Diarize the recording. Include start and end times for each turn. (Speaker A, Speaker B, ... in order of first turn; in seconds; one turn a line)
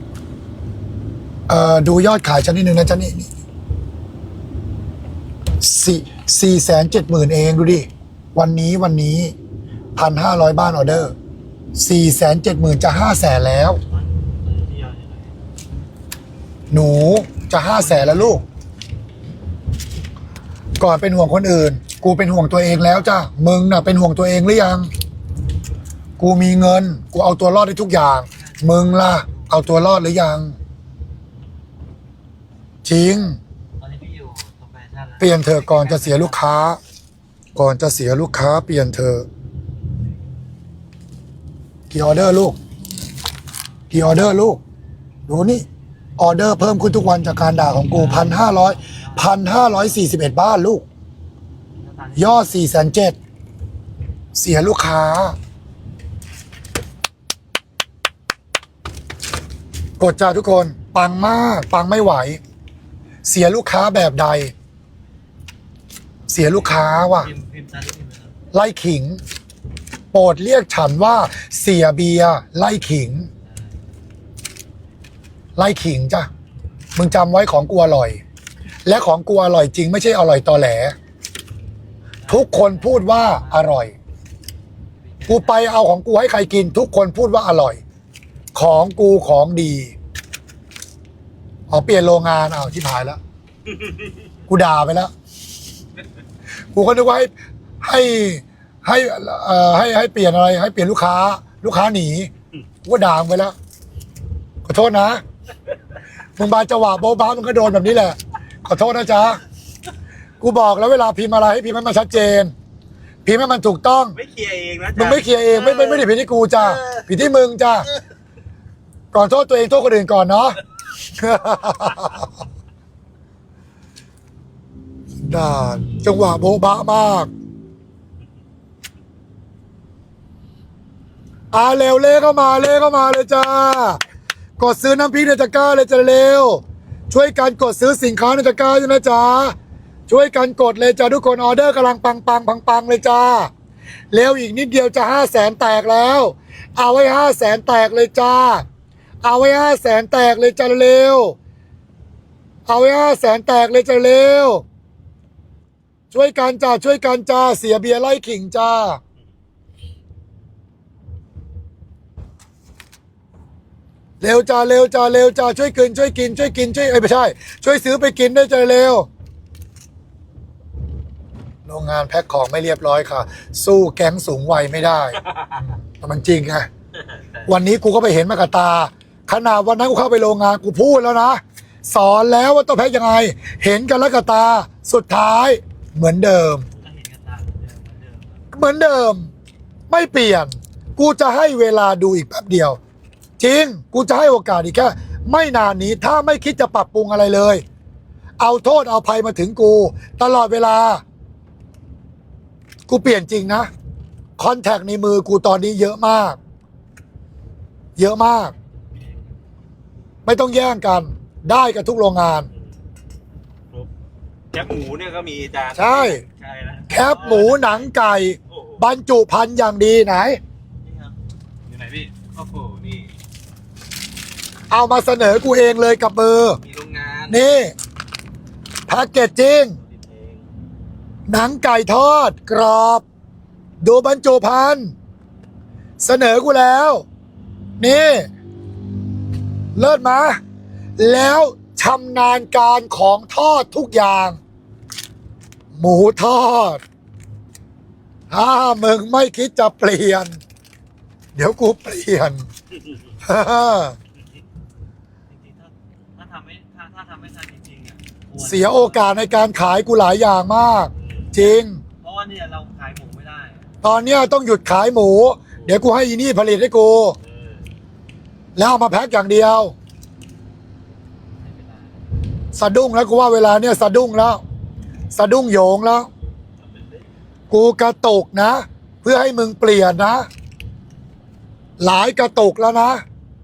Speaker A: 1.5-3.3
Speaker A: 5.6-9.3
Speaker A: 10.0-11.2
Speaker A: 11.8-13.8
Speaker B: 13.9-15.4
Speaker A: 16.7-18.4
Speaker B: 17.7-18.4
Speaker A: 20.8-24.9
Speaker A: 26.2-30.6
Speaker B: 28.2-29.7
Speaker A: 32.9-33.4
Speaker B: 33.8-36.5
Speaker A: 35.2-36.8
Speaker A: 37.6-39.3
Speaker A: 41.9-42.6
Speaker A: 43.9-44.6
Speaker A: 45.3-45.6
Speaker A: 46.2-50.9
Speaker B: 47.9-50.0
Speaker B: 51.8-52.5
Speaker A: 52.2-53.2
Speaker A: 54.4-55.4
Speaker A: 60.0-62.4
Speaker A: 63.2-64.5
Speaker B: 66.3-68.3
Speaker A: 66.3-67.3
Speaker A: 68.5-69.2
Speaker A: 70.1-73.3
Speaker A: 75.6-76.3
Speaker A: 77.0-78.2
Speaker A: 78.9-81.0
Speaker B: 82.2-83.8
Speaker A: 82.3-83.9
Speaker B: 85.0-85.7
Speaker A: 85.3-87.8
Speaker A: 88.5-90.0
Speaker A: 91.7-93.2
Speaker A: 94.5-95.1
Speaker A: 96.7-102.3
Speaker A: 102.8-103.5
Speaker A: 104.7-105.2
Speaker A: 106.4-109.4
Speaker A: 110.4-112.5
Speaker A: 113.2-114.2
Speaker C: 114.2-115.5
Speaker A: 115.0-117.9
Speaker A: 119.1-122.3
Speaker A: 125.2-127.3
Speaker A: 131.5-134.0
Speaker A: 134.6-139.6
Speaker A: 140.1-143.5
Speaker A: 144.1-148.7
Speaker A: 149.2-151.4
Speaker A: 152.7-154.6
Speaker A: 156.1-159.0
Speaker A: 164.2-169.1
Speaker A: 171.7-176.7
Speaker A: 177.5-186.7
Speaker B: 186.8-188.4
Speaker A: 188.5-189.3
Speaker A: 189.9-192.8
Speaker A: 193.4-197.6
Speaker A: 198.4-201.0
Speaker A: 202.9-203.7
Speaker A: 204.4-206.4
Speaker A: 208.0-208.5
Speaker A: 210.3-212.5
Speaker C: 214.5-217.1
Speaker A: 215.8-216.2
Speaker A: 216.9-220.4
Speaker B: 217.0-217.9
Speaker C: 218.5-218.8
Speaker B: 220.8-221.2
Speaker C: 221.7-223.1
Speaker A: 224.7-226.6
Speaker C: 226.6-227.4
Speaker A: 227.3-227.7
Speaker A: 228.9-229.8
Speaker C: 229.9-230.4
Speaker A: 231.3-233.1
Speaker A: 233.8-234.9
Speaker A: 236.0-237.1
Speaker A: 237.8-238.3
Speaker A: 239.8-240.4
Speaker A: 241.0-244.4
Speaker A: 245.7-246.8
Speaker A: 248.3-250.4
Speaker A: 251.3-252.5
Speaker A: 253.2-254.0
Speaker B: 255.3-259.2
Speaker A: 258.4-261.8
Speaker C: 261.0-261.3
Speaker B: 262.0-263.7
Speaker A: 263.8-267.2
Speaker C: 267.2-267.6
Speaker A: 268.6-269.7
Speaker B: 271.4-271.9
Speaker A: 272.5-274.4
Speaker A: 275.1-276.1
Speaker A: 277.5-280.3
Speaker A: 281.8-283.0